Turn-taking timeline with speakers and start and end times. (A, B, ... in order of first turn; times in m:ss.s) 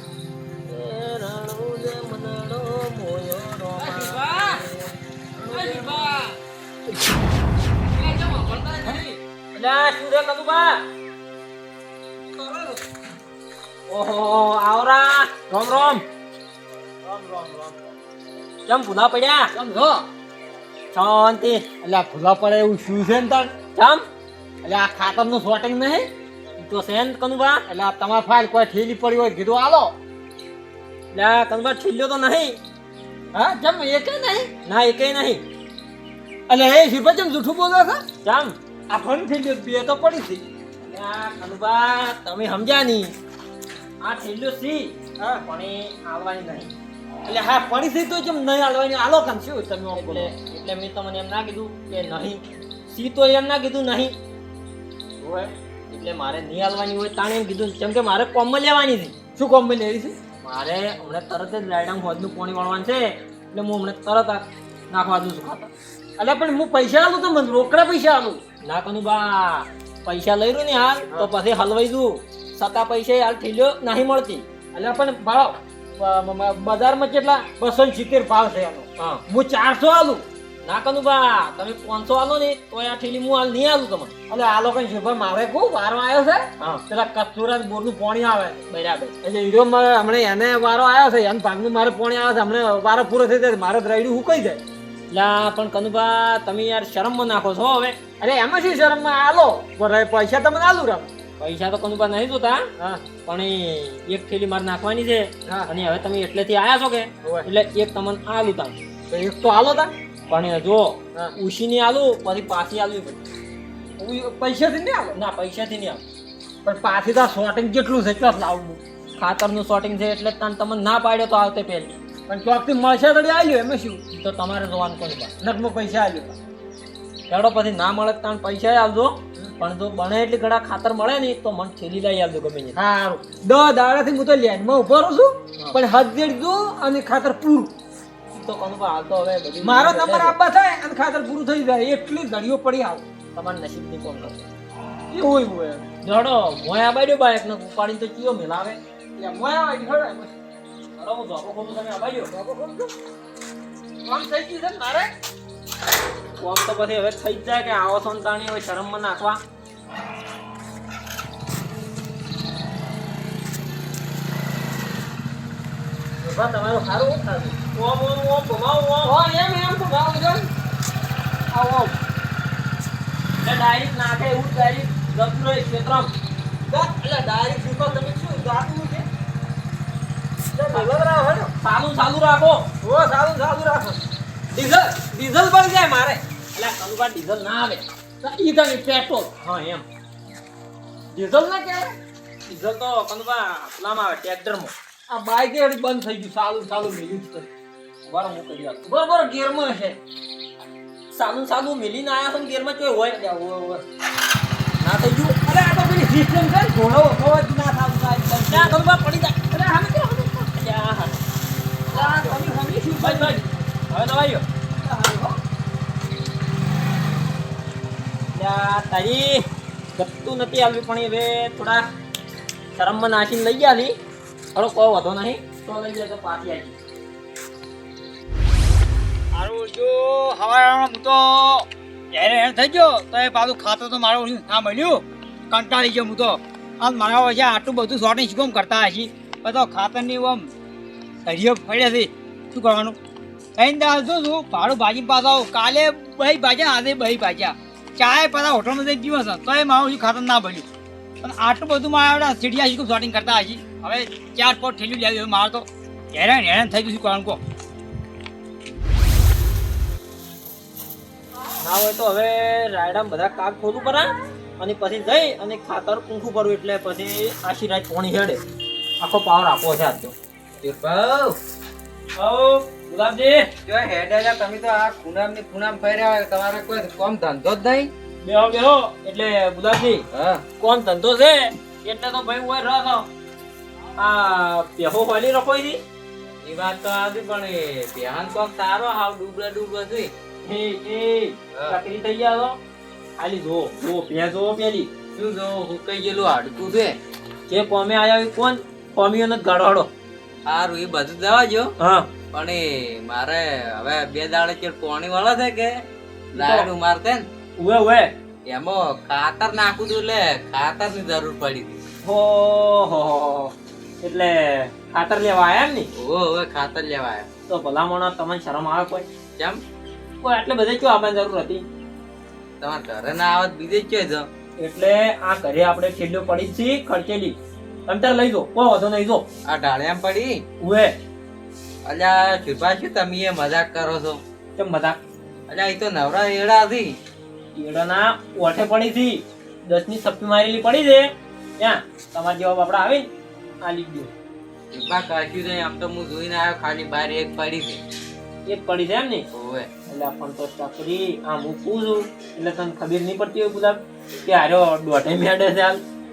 0:00.6-0:06.2 A
0:03.8-0:04.6 B
0:05.5-0:06.3 B
0:07.9-0:09.1 B
0:09.5-0:10.8 A
0:13.9-0:16.0 A
0:17.0-0:17.9 C
0:18.6-0:19.5 A
0:19.5-0:20.0 C
0:20.9-0:21.7 A
0:21.8-0:23.6 C
0:23.7-0:24.0 A
0:24.6-0:26.1 C
0:26.6-0:27.6 A
0:27.7-0:29.9 C
0:31.1-0:32.6 A
0:33.3-0:34.5 C
0:34.6-0:35.4 A
0:36.5-0:38.0 C
0:38.2-0:38.6 A
0:38.9-0:40.4 C
0:40.8-0:43.1 A
0:44.0-0:46.7 A
0:45.2-0:45.4 C
0:47.2-0:50.3 C
0:49.9-0:54.2 A
0:55.2-0:55.5 C
0:55.9-0:59.2 A
0:59.4-1:00.2 C
1:00.4-1:05.7 A
1:06.2-1:08.4 C
1:08.6-1:14.4 A
1:14.7-1:20.2 C
1:20.6-1:24.1 A
1:24.3-1:28.6 C
1:28.7-1:29.1 A
1:29.2-1:34.6 C
1:35.1-1:38.0 A
1:38.2-1:41.1 C
1:41.4-1:48.8 A
1:42.8-1:43.1 C
1:49.1-1:49.9 C
1:50.3-1:53.2 A
1:54.0-1:55.2 C
1:55.1-1:56.0 A
1:56.6-1:58.8 C
1:59.2-2:02.0 A
2:02.3-2:04.0 C
2:04.1-2:05.3 A
2:05.4-2:06.4 C
2:07.3-2:12.8 A
2:12.7-2:17.7 C
2:18.3-2:20.4 A
2:19.6-2:23.0 C
2:23.3-2:24.5 A
2:25.1-2:25.8 C
2:26.0-2:28.8 A
2:29.2-2:30.3 C
2:31.0-2:32.3 A
2:32.3-2:32.9 C
2:34.0-2:35.1 C
2:36.4-2:39.4 A
2:46.2-2:47.6 C
2:47.7-2:49.2 A
2:49.0-2:50.5 C
2:51.5-2:52.0 C
2:53.4-2:56.1 A
2:56.7-2:59.0 C
3:00.5-3:01.5 C
3:01.6-3:02.7 A
3:02.8-3:04.0 C
3:04.5-3:06.2 C
3:06.5-3:07.8 A
3:08.2-3:09.5 C
3:09.4-3:09.8 A
3:11.1-3:11.9 C
3:12.5-3:14.7 A
3:15.1-3:17.5 C
3:18.1-3:18.9 A
3:18.8-3:20.0 C
3:21.1-3:23.2 A
3:23.1-3:23.8 C
3:24.8-3:25.4 A
3:25.4-3:28.8 C
3:28.5-3:31.2 A
3:31.9-3:33.5 C
3:32.1-3:32.4 A
3:33.0-3:34.4 A
3:34.8-3:35.3 C
3:38.3-3:41.8 A
3:42.8-3:43.9 A
3:44.5-3:46.8 A
3:49.3-4:00.5 B
4:01.2-4:03.0 B
4:03.6-4:10.7 B
4:11.2-4:17.4 B
4:21.6-4:28.4 A
4:29.0-4:30.1 A
4:30.6-4:31.4 D
4:32.2-4:33.5 A
4:33.7-4:37.9 D
4:38.2-4:40.0 A
4:40.1-4:40.4 D
4:40.6-4:43.1 A
4:44.0-4:45.8 A
4:46.4-4:50.1 D
4:50.4-4:52.6 A
4:53.2-4:54.9 A
4:55.1-4:57.0 D
4:57.5-4:59.9 A
5:00.5-5:01.7 D
5:01.8-5:02.1 A
5:02.3-5:07.3 D
5:06.3-5:06.7 A
5:07.6-5:08.1 A
5:08.5-5:11.8 D
5:12.0-5:15.9 A
5:16.0-5:17.3 D
5:17.5-5:19.1 A
5:19.4-5:19.6 D
5:20.2-5:21.6 A
5:22.6-5:24.3 D
5:24.6-5:29.2 A
5:29.4-5:30.4 D
5:30.6-5:31.0 A
5:31.8-5:34.2 D
5:34.6-5:35.0 A
5:35.5-5:37.0 D
5:37.5-5:43.1 A
5:43.6-5:44.1 A
5:44.7-5:47.8 D
5:48.5-5:49.3 A
5:49.3-5:49.7 D
5:49.9-5:55.8 A